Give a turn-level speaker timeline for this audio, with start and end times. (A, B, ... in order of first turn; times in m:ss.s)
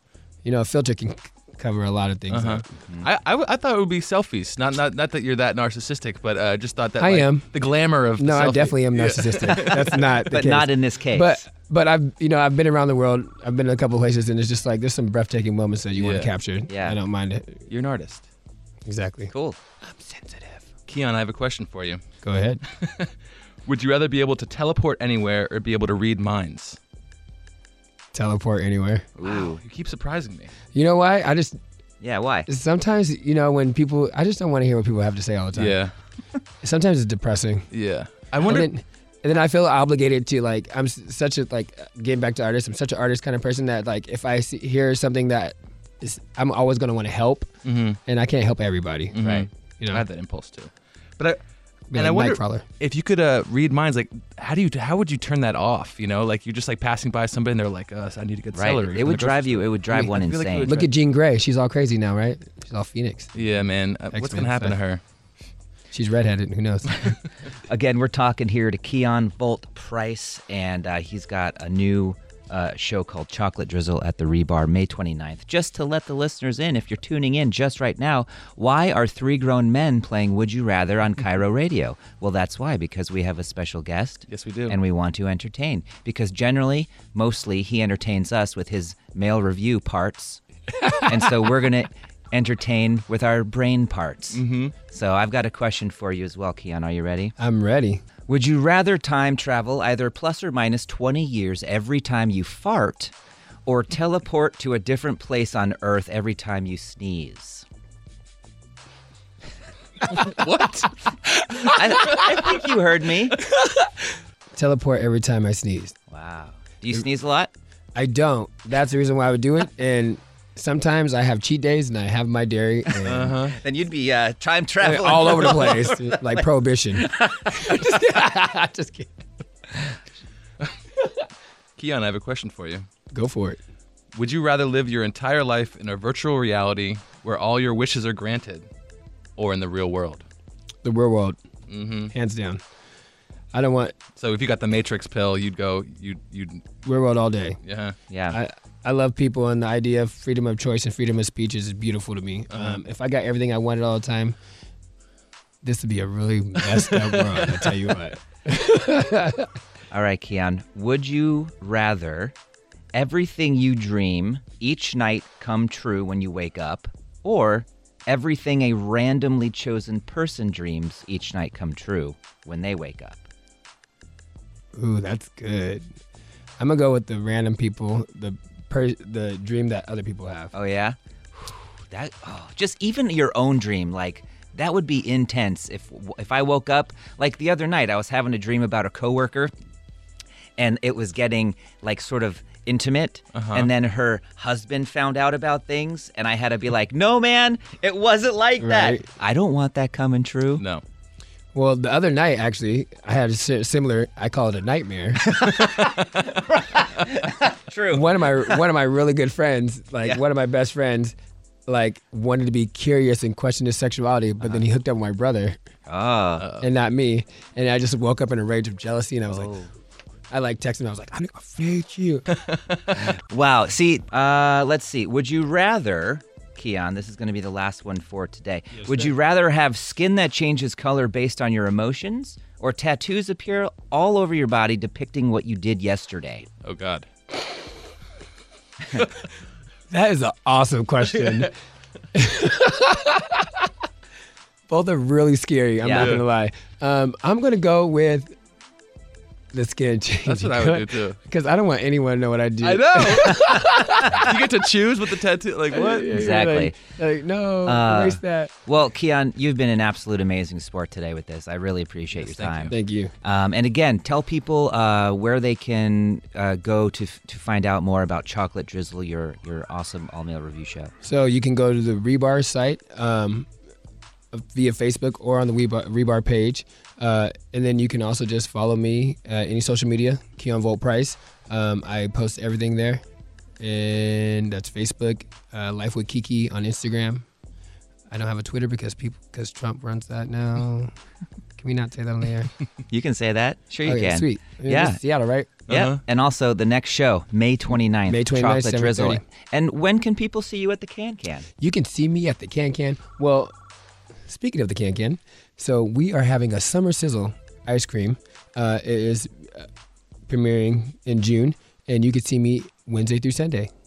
0:00.4-0:02.6 A
0:02.3-0:10.0 B
0:07.0-0:07.5 A
0:08.2-0:17.6 A
0:10.3-0:11.4 C
0:16.0-0:16.3 B
0:16.7-0:17.0 C
0:17.7-0:18.2 B
0:18.8-0:19.3 A
0:19.3-0:19.6 C
0:19.8-0:20.6 A
0:20.9-0:22.0 B
0:22.2-0:22.6 A
0:22.7-0:23.1 B
0:23.6-0:26.8 B
0:28.1-0:29.1 A
0:29.2-0:29.6 C
0:29.3-0:30.5 B
0:30.7-0:31.6 A
0:32.0-0:32.5 C
0:32.5-0:35.8 A
0:35.5-0:35.9 B
0:36.6-0:37.7 A
0:37.7-0:38.7 B
0:38.4-0:47.5 A
0:47.6-0:48.0 B
0:48.1-0:49.2 A
0:49.1-0:51.4 B
0:49.2-0:49.5 C
0:49.8-0:50.0 A
0:51.9-0:52.6 A
0:51.9-1:00.9 B
0:58.5-1:00.8 C
1:00.6-1:03.3 A
1:03.3-1:05.0 B
1:04.1-1:04.8 A
1:05.9-1:07.1 A
1:07.7-1:30.4 C
1:24.3-1:24.8 B
1:31.0-1:37.3 C
1:34.3-1:34.8 B
1:37.4-1:38.0 A
1:38.3-1:43.1 C
1:43.6-1:47.6 C
1:50.1-1:51.0 B
1:51.5-1:53.4 C
1:53.5-1:53.9 A
1:54.6-1:55.9 A
1:56.1-1:57.5 C
1:57.9-2:03.4 A
2:03.0-2:03.6 B
2:03.1-2:06.4 C
2:04.8-2:09.2 A
2:07.0-2:07.8 C
2:11.8-2:12.8 B
2:13.1-2:13.6 A
2:14.1-2:18.7 B
2:19.4-2:20.2 B
2:20.8-2:21.4 A
2:21.7-2:22.1 B
2:22.1-2:22.6 A
2:23.5-2:24.0 A
2:24.2-2:26.6 B
2:26.8-2:27.6 A
2:27.6-2:28.0 B
2:28.1-2:28.4 C
2:28.3-2:34.4 A
2:32.5-2:32.8 B
2:35.6-2:39.5 A
2:36.7-2:37.7 B
2:39.9-2:42.3 C
2:42.9-2:53.3 C
2:54.7-2:55.9 A
2:56.6-3:00.5 A
3:00.5-3:09.5 C
3:10.6-3:20.6 C
3:13.3-3:13.7 B
3:18.6-3:19.1 A
3:20.6-3:20.8 B
3:21.5-3:25.4 A
3:25.4-3:28.6 C
3:27.9-3:31.2 A
3:31.7-3:35.6 A
3:35.9-3:36.5 C
3:36.4-3:36.7 B
3:36.6-3:39.5 A
3:39.3-3:39.7 C
3:40.3-3:42.3 A
3:42.3-3:43.0 B
3:43.0-3:56.5 C
3:56.6-3:57.1 B
3:59.9-4:01.5 A
4:01.2-4:01.5 B
4:02.1-4:03.5 A
4:04.7-4:08.3 A
4:05.8-4:06.2 C
4:05.9-4:06.2 B
4:09.5-4:14.3 A
4:10.2-4:11.2 B
4:12.6-4:16.1 B
4:13.8-4:14.3 C
4:15.7-4:18.5 A
4:16.0-4:16.8 C
4:17.6-4:30.9 C
4:22.2-4:22.7 B
4:22.7-4:23.1 A
4:31.0-4:33.5 A
4:34.3-4:43.0 A
4:43.6-4:47.2 A
4:48.1-4:50.9 A
4:51.6-4:52.5 A
4:52.9-4:55.0 C
4:53.8-4:55.5 A
4:55.7-4:56.0 B
4:55.7-5:01.5 C
4:58.1-4:59.2 A
5:01.6-5:03.5 A
5:04.3-5:09.7 A
5:10.3-5:13.7 A